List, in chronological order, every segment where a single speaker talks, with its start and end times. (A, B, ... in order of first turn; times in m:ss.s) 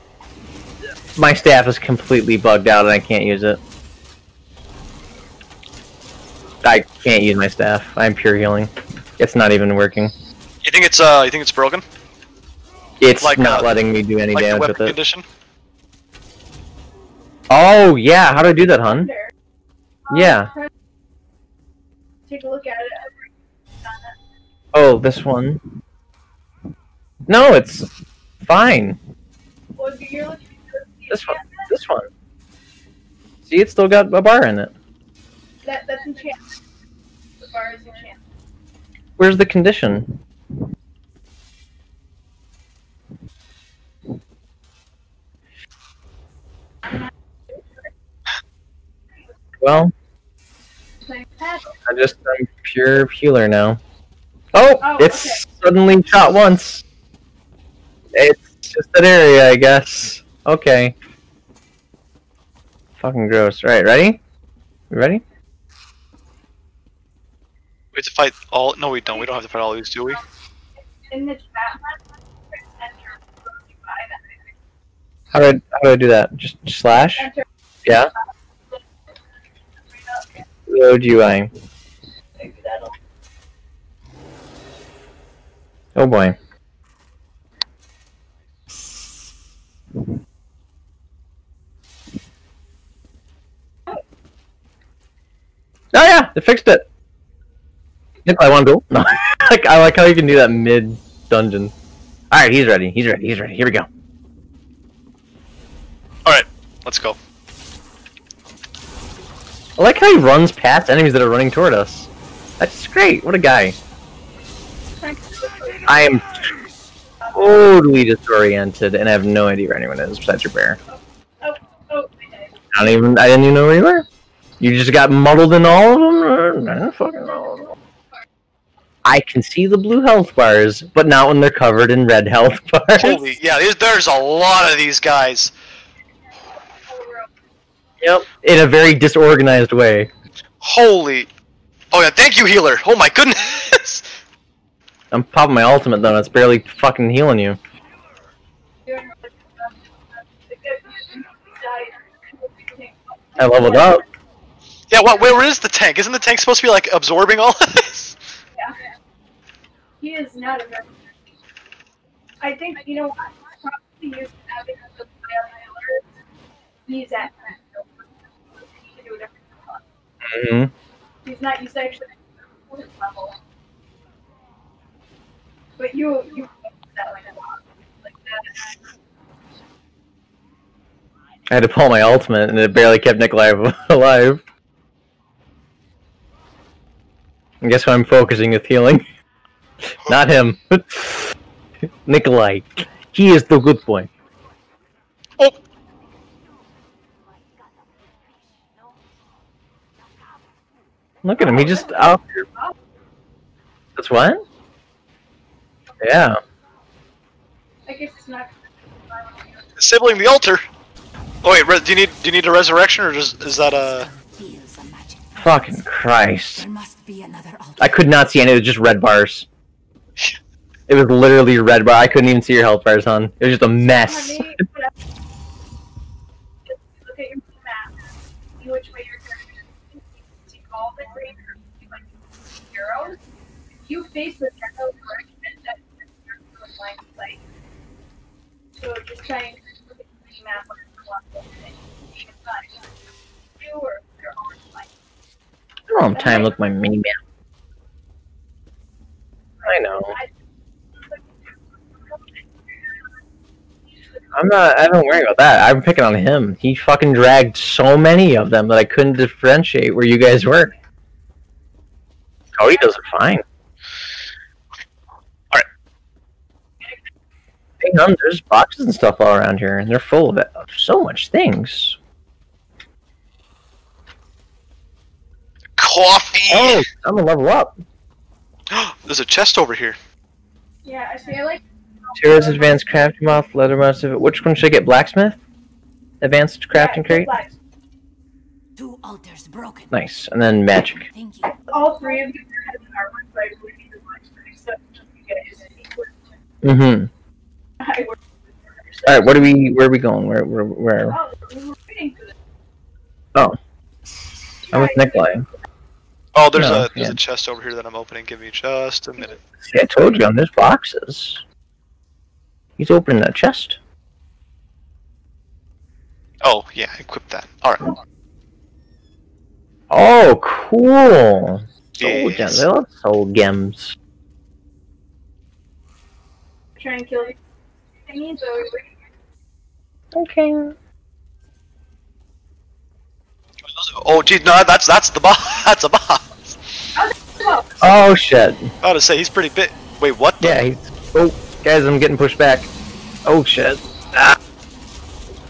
0:01.2-0:03.6 A
0:06.6-0:10.1 A
0:10.6-0:11.8 B
0:13.0-0:15.0 A
0:13.2-0:13.7 B
0:14.3-0:15.2 B
0:17.5-0:19.1 A
0:18.9-0:19.3 C
0:20.1-0:20.7 C
0:20.1-0:20.5 A
0:22.3-0:24.2 C
0:24.7-0:25.6 A
0:27.3-0:27.9 A
0:28.4-0:29.0 A
0:29.8-0:31.7 C
0:31.1-0:32.1 A
0:33.4-0:34.7 A
0:35.6-0:36.5 C
0:37.4-0:38.2 C
0:39.2-0:40.1 A
0:46.8-0:47.6 C
0:49.6-0:49.9 A
0:51.0-0:51.8 C
0:51.8-0:53.8 A
0:54.5-0:56.8 A
0:54.8-0:55.4 C
0:58.1-1:00.9 A
1:03.0-1:04.2 A
1:04.9-1:05.2 A
1:07.9-1:10.2 B
1:10.8-1:14.5 C
1:15.3-1:17.3 A
1:17.2-1:17.4 C
1:17.8-1:18.1 A
1:19.8-1:20.4 C
1:20.7-1:21.5 A
1:22.4-1:22.9 C
1:26.0-1:26.4 A
1:35.9-1:36.8 A
1:38.2-1:41.7 A
1:42.3-1:43.9 A
1:46.2-1:47.2 B
1:49.8-1:52.1 A
1:52.6-1:53.8 A
1:55.0-1:56.0 C
1:55.8-1:56.5 A
1:57.2-1:57.6 C
1:57.3-2:00.8 A
2:00.9-2:02.5 C
2:02.7-2:04.0 A
2:04.6-2:07.7 A
2:07.4-2:07.8 C
2:09.0-2:13.4 A
2:13.0-2:15.5 B
2:16.5-2:17.3 C
2:18.0-2:20.1 A
2:20.6-2:21.3 B
2:21.9-2:24.0 B
2:25.1-2:27.6 A
2:28.8-2:34.1 C
2:33.4-2:34.0 A
2:34.9-2:38.2 B
2:40.0-2:41.2 C
2:42.4-2:46.1 C
2:46.9-2:49.8 C
2:50.2-2:50.7 A
2:51.2-2:53.4 C
2:55.8-2:58.8 C
3:01.5-3:04.4 A
3:07.6-3:09.0 A
3:09.8-3:11.3 A
3:12.0-3:14.1 A
3:21.2-3:22.4 A
3:21.4-3:22.8 C
3:24.0-3:24.4 A
3:26.0-3:26.4 A
3:27.9-3:30.3 C
3:29.8-3:30.6 B
3:31.4-3:34.1 B
3:33.7-3:35.9 D
3:35.4-3:36.6 A
3:36.5-3:38.0 D
3:37.8-3:39.5 A
3:40.9-3:44.5 A
3:44.0-3:44.9 C
3:46.7-3:53.2 C
3:53.8-3:57.4 C
3:58.8-4:02.8 C
4:03.6-4:04.9 C
4:05.9-4:07.2 A
4:06.1-4:06.6 C
4:09.6-4:10.4 C
4:09.6-4:10.1 A
4:11.0-4:13.1 C
4:13.9-4:14.3 C
4:14.3-4:20.7 A
4:22.6-4:23.4 A
4:22.6-4:23.0 C
4:27.8-4:32.0 A
4:35.8-4:36.8 B
4:36.5-4:37.8 A
4:38.7-4:40.0 B
4:40.8-4:42.8 C
4:42.2-4:45.4 A
4:46.2-4:47.3 A
4:46.7-4:47.5 C
4:48.8-4:50.0 D
4:49.9-4:51.0 A
4:51.1-4:51.6 D
4:51.7-4:56.3 C
4:56.6-4:57.1 A
4:57.8-4:59.3 C
4:59.0-5:01.2 A
5:01.1-5:02.4 C
5:04.7-5:05.4 C
5:04.7-5:05.4 A
5:06.3-5:09.4 B
5:06.5-5:07.2 A
5:09.6-5:11.4 A
5:12.8-5:13.8 A
5:16.4-5:18.0 B
5:19.9-5:24.0 A
5:22.0-5:22.6 B
5:26.8-5:27.4 C
5:28.0-5:29.0 C
5:30.1-5:30.7 A
5:33.6-5:36.6 B
5:36.9-5:37.7 C
5:37.8-5:38.7 A
5:38.8-5:40.6 B
5:40.4-5:42.7 A
5:43.2-5:44.4 A